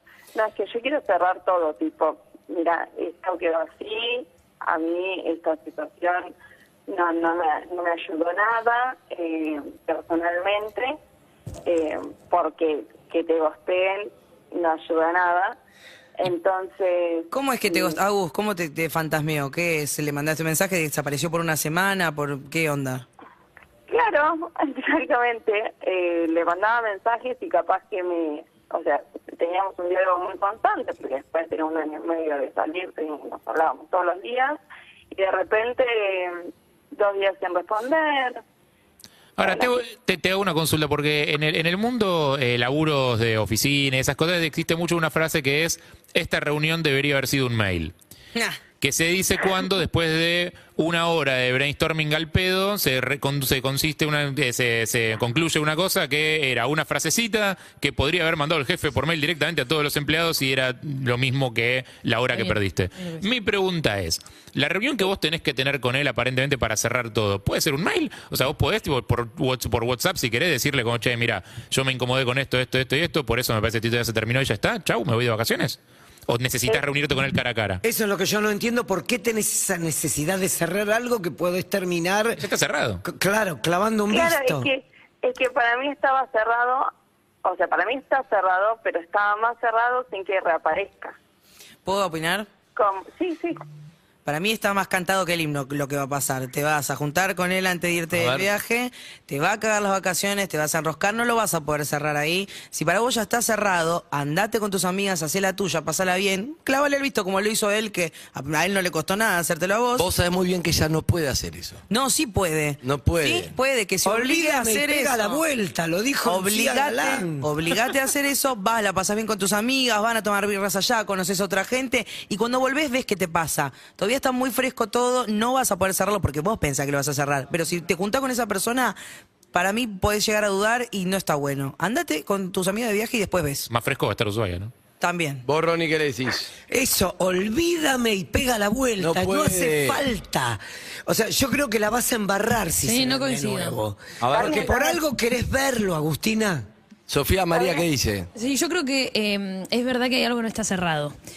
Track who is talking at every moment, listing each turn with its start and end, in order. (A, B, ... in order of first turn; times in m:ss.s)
0:00.4-0:06.3 A
0:06.9-0:10.9 A
0:11.7-0:15.6 A
0:16.2-0:18.0 A
0:17.3-0:23.1 B
0:23.9-0:34.6 A
0:35.1-0:36.4 A
0:36.9-0:38.4 A
0:39.4-0:47.9 C
0:39.4-0:39.8 A
0:48.8-1:17.8 C
1:17.8-1:22.4 D
1:22.4-1:23.0 C
1:23.0-1:24.7 D
1:24.1-1:26.9 A
1:27.4-1:31.2 A
1:31.8-1:32.5 B
1:32.8-1:33.6 A
1:34.2-1:50.1 B
1:38.1-1:38.5 E
1:50.0-1:51.8 E
1:51.9-1:55.4 B
1:52.8-1:53.6 E
1:54.0-1:57.9 D
1:56.2-2:09.0 B
2:09.5-2:13.7 B
2:13.7-2:14.7 C
2:15.0-2:15.4 B
2:15.5-2:16.5 E
2:16.7-2:26.7 D
2:19.0-2:20.0 E
2:22.9-2:23.7 F
2:24.2-2:24.6 E
2:24.3-2:24.9 A
2:27.1-2:28.3 E
2:27.5-2:27.8 A
2:28.4-2:31.2 F